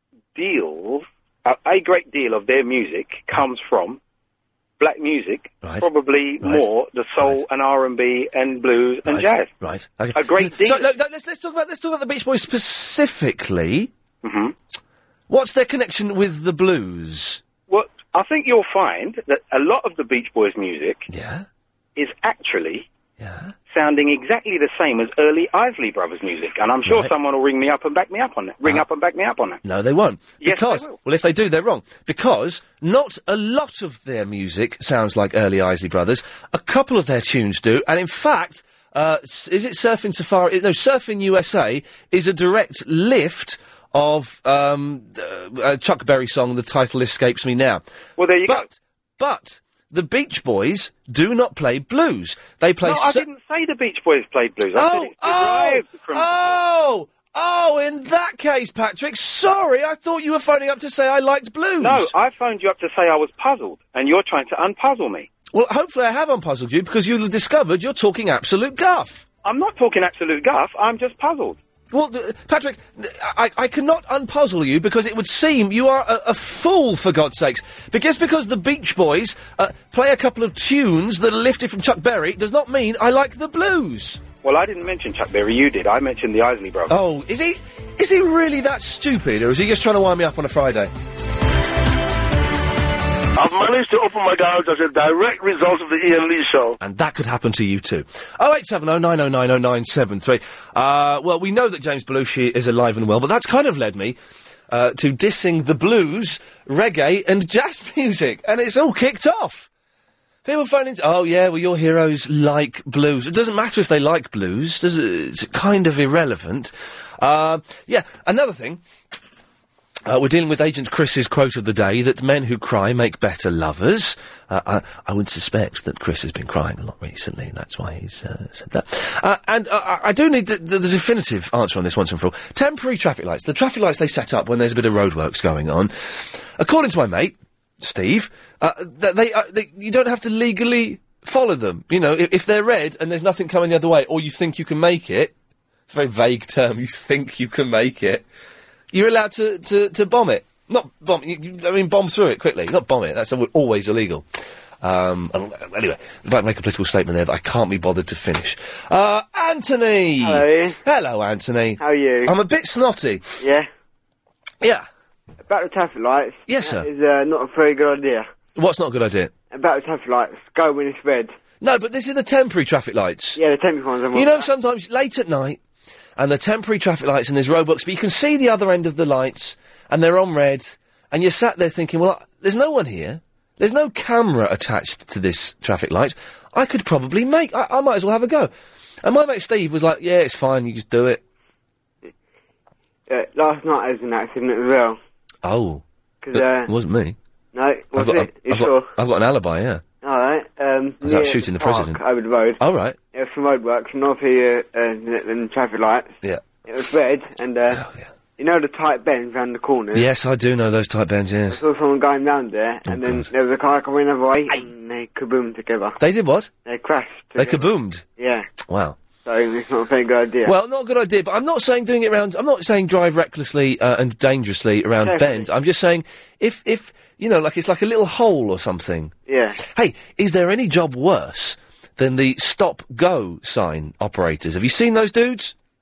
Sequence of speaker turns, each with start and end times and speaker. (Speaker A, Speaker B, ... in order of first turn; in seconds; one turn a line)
Speaker A: 0.3-4.0
Speaker A: 4.8-9.5
Speaker B: 6.4-6.7
Speaker B: 9.1-13.9
Speaker A: 10.1-10.9
Speaker A: 14.2-14.5
Speaker B: 15.3-17.4
Speaker A: 17.7-21.1
Speaker B: 21.1-21.5
Speaker A: 22.0-22.9
Speaker B: 23.2-23.5
Speaker A: 23.7-29.6
Speaker B: 26.9-27.1
Speaker B: 29.6-47.8
Speaker A: 30.4-31.0
Speaker A: 48.2-48.7
Speaker B: 48.5-53.2
Speaker A: 52.8-56.6
Speaker B: 54.8-62.1
Speaker A: 61.8-65.3
Speaker B: 65.5-69.3
Speaker A: 69.4-71.6
Speaker B: 71.9-84.2
Speaker A: 84.4-87.0
Speaker B: 86.9-90.9
Speaker C: 93.3-96.8
Speaker B: 96.8-104.2
Speaker B: 104.7-109.7
Speaker B: 110.5-118.8
Speaker B: 120.1-145.3
Speaker B: 145.9-148.2
Speaker B: 148.9-154.2
Speaker B: 154.8-163.3
Speaker D: 160.2-160.8
Speaker D: 161.8-162.3
Speaker D: 163.4-163.7
Speaker D: 165.5-168.3
Speaker B: 166.5-166.9
Speaker B: 168.6-169.3
Speaker D: 169.5-171.3
Speaker B: 171.6-173.4
Speaker D: 173.4-174.5
Speaker B: 174.1-175.6
Speaker B: 176.2-188.5
Speaker B: 189.0-191.2
Speaker D: 193.1-195.0
Speaker B: 195.4-197.2
Speaker D: 196.2-196.7
Speaker D: 197.5-198.9
Speaker B: 197.9-199.8
Speaker D: 200.0-202.6
Speaker B: 201.0-202.0
Speaker B: 202.6-203.0
Speaker D: 203.1-206.1
Speaker D: 206.7-207.8
Speaker B: 207.7-208.1
Speaker D: 208.4-210.1
Speaker B: 209.9-211.6
Speaker D: 211.5-216.0
Speaker B: 212.9-213.3
Speaker B: 216.0-216.5
Speaker D: 216.7-218.5
Speaker B: 217.4-218.0
Speaker B: 218.7-219.0
Speaker D: 219.2-220.6
Speaker B: 220.4-235.5
Speaker D: 225.0-225.5
Speaker D: 229.3-229.6